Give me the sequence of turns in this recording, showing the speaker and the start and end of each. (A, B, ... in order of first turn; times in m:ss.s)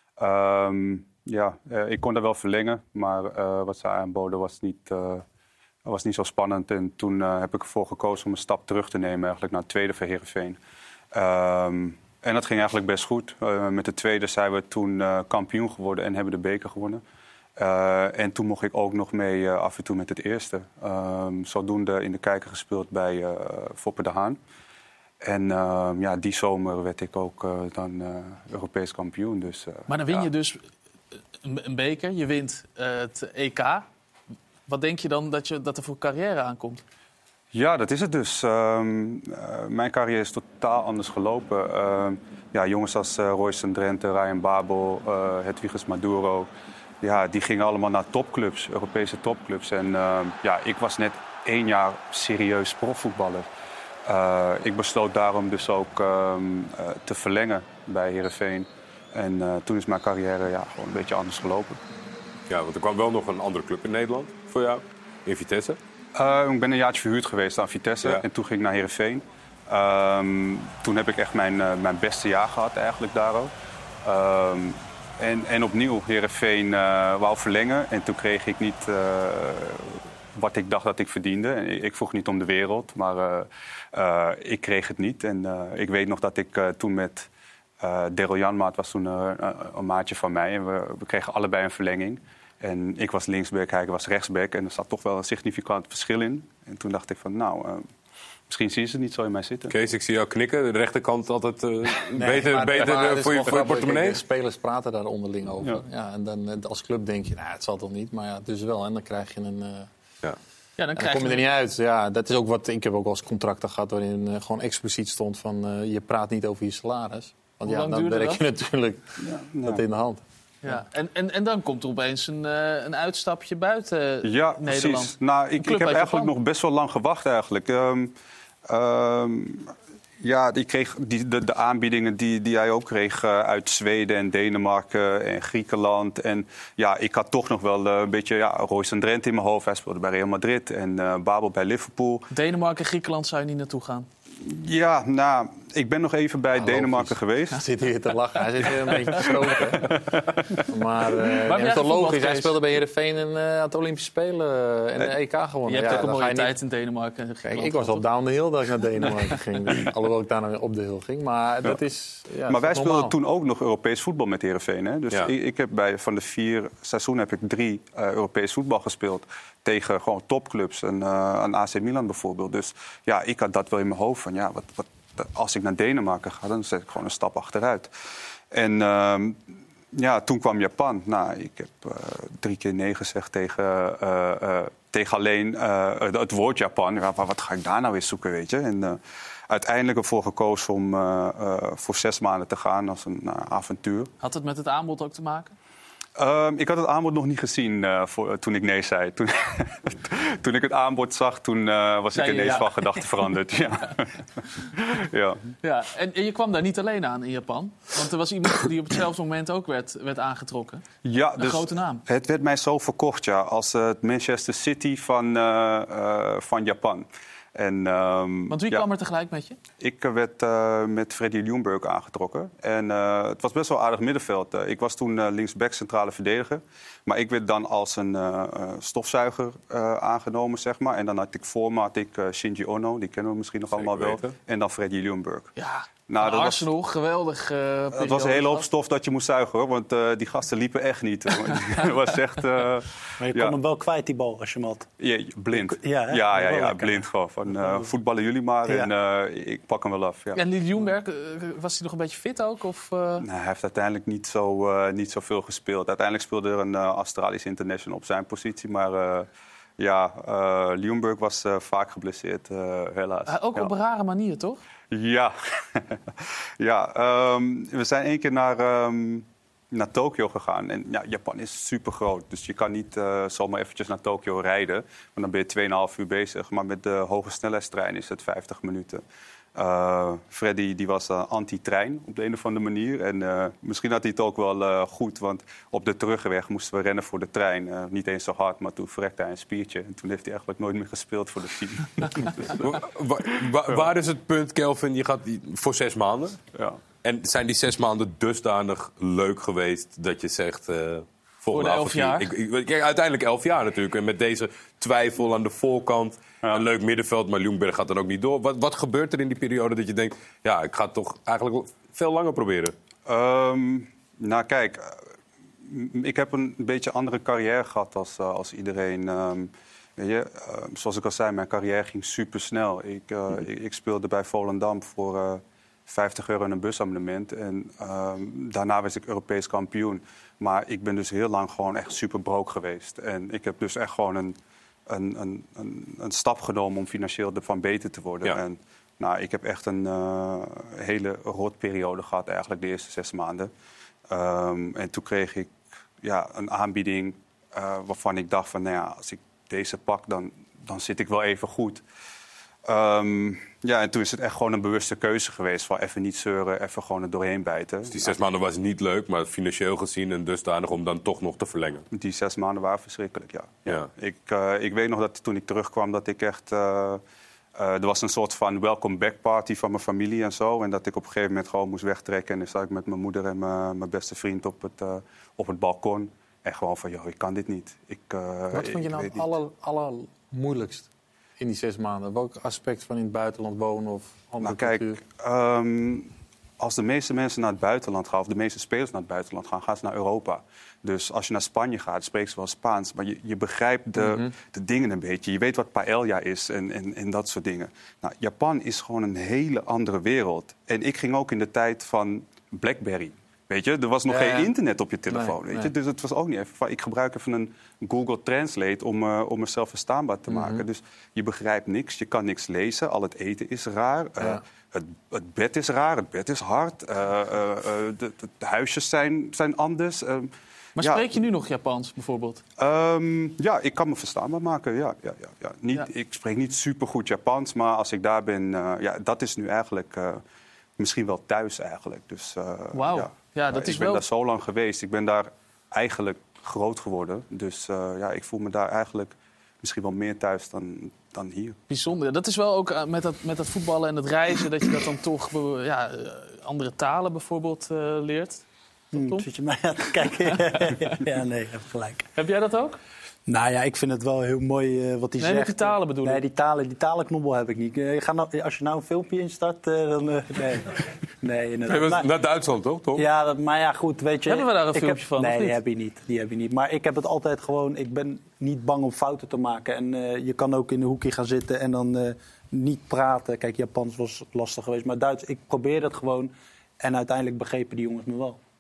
0:00.2-0:05.2 A
0:05.8-0:10.6 A
0:11.1-0:17.0 A
0:17.6-0:24.4 A
0:25.2-0:30.3 A
0:29.9-0:30.7 B
0:31.4-0:33.8 B
0:34.7-0:36.8 B
0:37.5-0:46.5 A
0:47.0-0:53.5 A
0:54.1-1:01.8 A
1:02.5-1:05.8 C
1:06.2-1:13.5 A
1:14.0-1:27.3 A
1:27.8-1:37.9 A
1:38.5-1:39.7 A
1:39.7-1:44.2 C
1:42.1-1:49.9 D
1:50.8-1:51.4 B
1:51.0-2:00.8 D
1:57.6-1:58.4 B
1:59.2-1:59.8 A
2:00.6-2:06.3 B
2:04.2-2:08.1 A
2:08.7-2:09.7 A
2:10.2-2:22.3 A
2:22.3-2:24.1 B
2:24.4-2:27.6 A
2:26.6-2:30.0 D
2:29.6-2:30.6 A
2:30.7-2:36.6 D
2:31.5-2:32.6 B
2:35.7-2:38.0 B
2:37.4-2:43.2 D
2:42.5-2:57.9 A
2:58.5-2:59.4 A
3:00.0-3:14.1 A
3:14.2-3:15.5 B
3:16.2-3:24.1 A
3:22.1-3:23.0 B
3:24.9-3:25.4 A
3:25.6-3:30.8 B
3:31.0-3:38.9 A
3:31.4-3:32.0 B
3:38.5-3:39.6 B
3:39.8-3:55.5 A
3:53.7-3:54.3 C
3:55.6-3:58.7 B
3:56.1-3:56.7 A
3:57.9-4:03.6 A
4:03.2-4:04.9 E
4:05.0-4:10.4 A
4:05.5-4:07.0 E
4:10.4-4:13.2 B
4:13.2-4:23.7 A
4:23.3-4:24.6 B
4:24.9-4:26.0 A
4:26.6-4:39.0 A
4:39.6-4:52.6 A
4:52.6-4:56.4 C
4:57.0-5:12.7 C
5:01.5-5:02.3 B
5:13.1-5:15.0 A
5:15.7-5:34.4 A
5:34.9-5:43.5 A
5:44.1-5:51.8 A
5:52.7-5:58.1 A
5:57.9-6:01.9 C
6:01.9-6:07.0 A
6:07.6-6:19.3 A
6:18.5-6:20.9 D
6:21.4-6:25.0 D
6:24.4-7:00.3 A
6:34.0-6:34.3 D
6:44.1-6:44.5 D
6:45.1-6:45.7 D
6:50.3-6:50.6 D
7:00.8-7:02.4 B
7:02.6-7:10.2 A
7:10.8-7:21.6 A
7:12.7-7:14.0 B
7:21.7-7:28.4 B
7:29.0-7:29.3 B
7:29.0-7:32.1 E
7:32.2-7:32.8 B
7:33.3-7:42.1 E
7:35.2-7:36.2 B
7:41.7-7:43.1 C
7:43.0-7:58.4 E
7:44.3-7:45.6 B